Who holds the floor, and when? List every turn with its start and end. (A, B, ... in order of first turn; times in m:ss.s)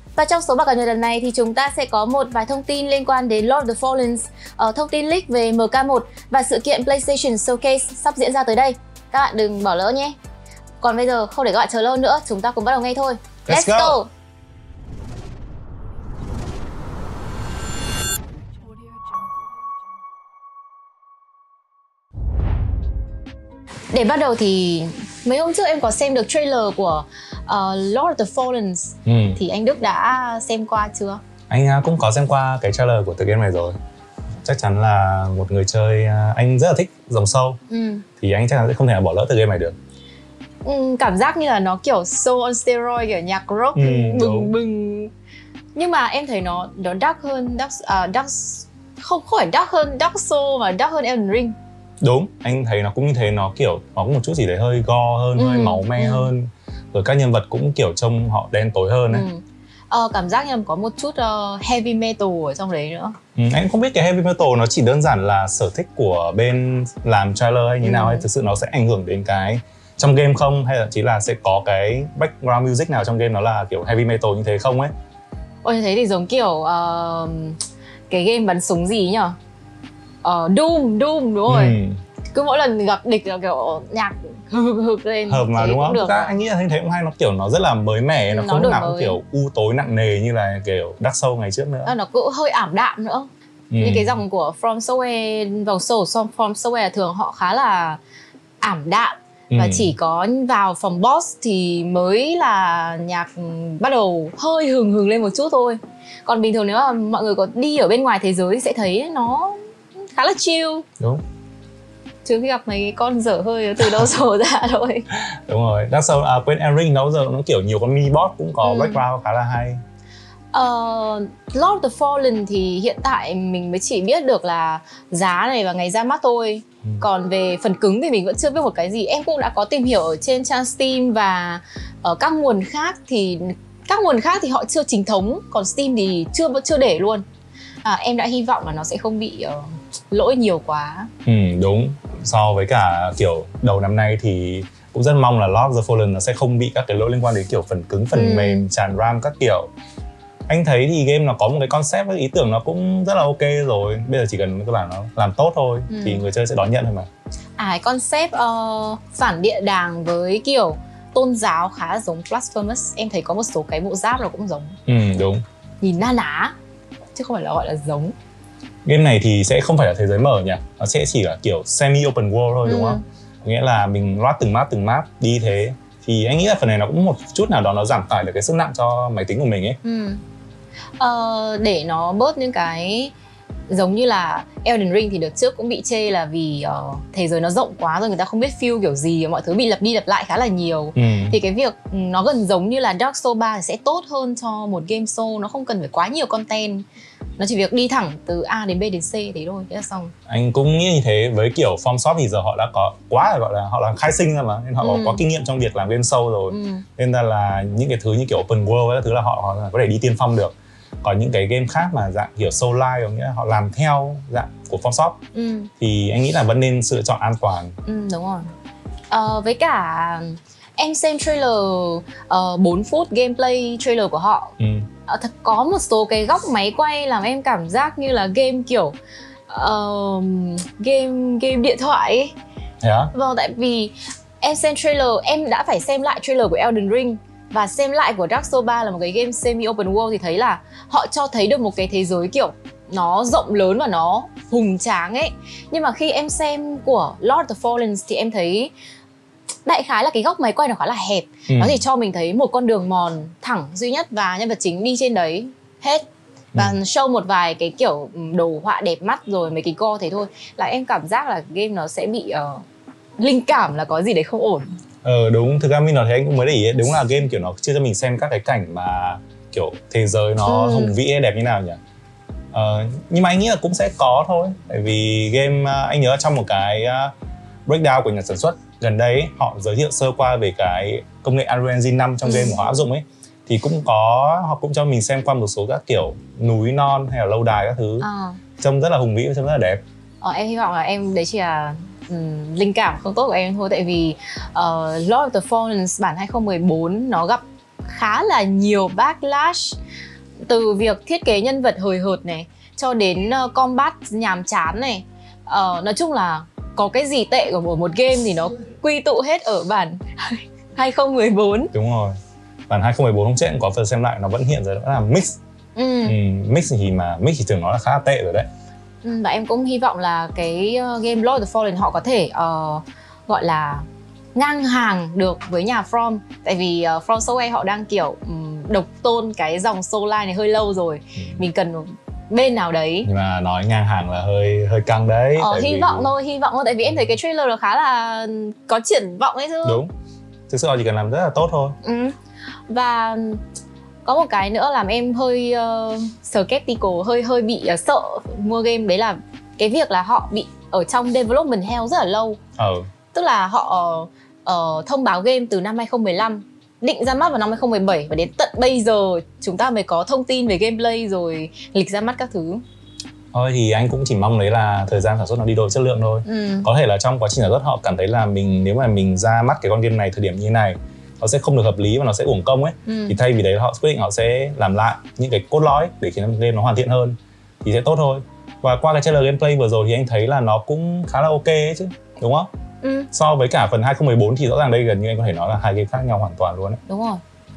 0:00.2-0:10.2 A
0:10.8-0:14.1 A
0:13.5-0:14.0 B
0:23.9-0:31.2 A
0:29.1-0:29.4 B
0:31.5-0:33.8 B
0:34.4-0:37.6 B
0:37.7-0:38.0 A
0:38.2-0:39.7 B
0:40.6-0:45.1 A
0:43.8-0:44.5 B
0:45.8-0:51.6 A
0:52.0-0:59.3 B
0:55.4-0:56.3 A
0:59.1-1:03.2 A
1:03.4-1:14.9 B
1:07.8-1:08.2 A
1:15.6-1:19.4 A
1:20.2-1:21.8 A
1:21.5-1:22.0 B
1:22.3-1:26.3 A
1:25.3-1:31.9 B
1:28.3-1:29.2 A
1:31.8-1:38.0 A
1:33.7-1:34.2 B
1:38.6-1:50.9 A
1:39.5-1:39.9 B
1:52.2-1:55.1 A
1:55.1-1:59.8 B
1:58.6-1:59.0 A
2:00.5-2:17.2 A
2:17.8-2:21.1 A
2:21.2-2:29.7 B
2:28.1-2:28.7 A
2:30.5-2:37.1 B
2:35.9-2:36.2 A
2:37.6-2:44.8 A
2:44.9-2:45.4 B
2:45.8-2:46.5 A
2:47.2-2:48.2 A
2:48.8-2:59.8 B
2:52.6-2:53.0 A
2:59.8-3:00.2 A
3:01.0-3:03.1 A
3:03.7-3:16.8 A
3:11.0-3:11.4 B
3:17.4-3:20.1 A
3:20.3-3:35.2 B
3:24.8-3:25.2 A
3:26.5-3:26.9 A
3:35.3-3:35.7 A
3:35.8-3:37.8 B
3:37.8-3:38.5 A
3:39.1-3:44.5 A
3:44.6-3:44.9 B
3:45.1-3:49.0 A
3:49.5-3:52.3 A
3:52.8-3:53.1 B
3:53.1-4:08.7 A
4:09.7-4:22.6 A
4:11.5-4:11.8 B
4:23.2-4:24.7 A
4:25.0-4:31.8 B
4:30.5-4:31.0 A
4:32.5-4:37.1 B
4:37.7-4:48.1 B
4:42.2-4:42.7 A
4:48.0-4:48.4 A
4:48.6-4:49.8 B
4:50.2-4:59.8 A
5:00.4-5:11.7 A
5:11.7-5:12.2 B
5:12.7-5:15.4 B
5:15.8-5:16.2 A
5:16.0-5:18.5 B
5:19.0-5:33.1 A
5:31.2-5:31.4 B
5:33.0-5:36.1 B
5:35.4-5:39.8 A
5:39.6-5:39.9 B
5:40.5-5:41.8 B
5:41.8-5:42.2 A
5:42.7-5:43.4 A
5:44.0-5:52.4 A
5:52.6-5:52.9 B
5:53.1-6:02.6 A
6:03.3-6:22.5 B
6:06.2-6:06.7 A
6:12.9-6:13.2 A
6:22.8-6:23.1 A
6:23.1-6:26.8 B
6:26.9-6:27.2 A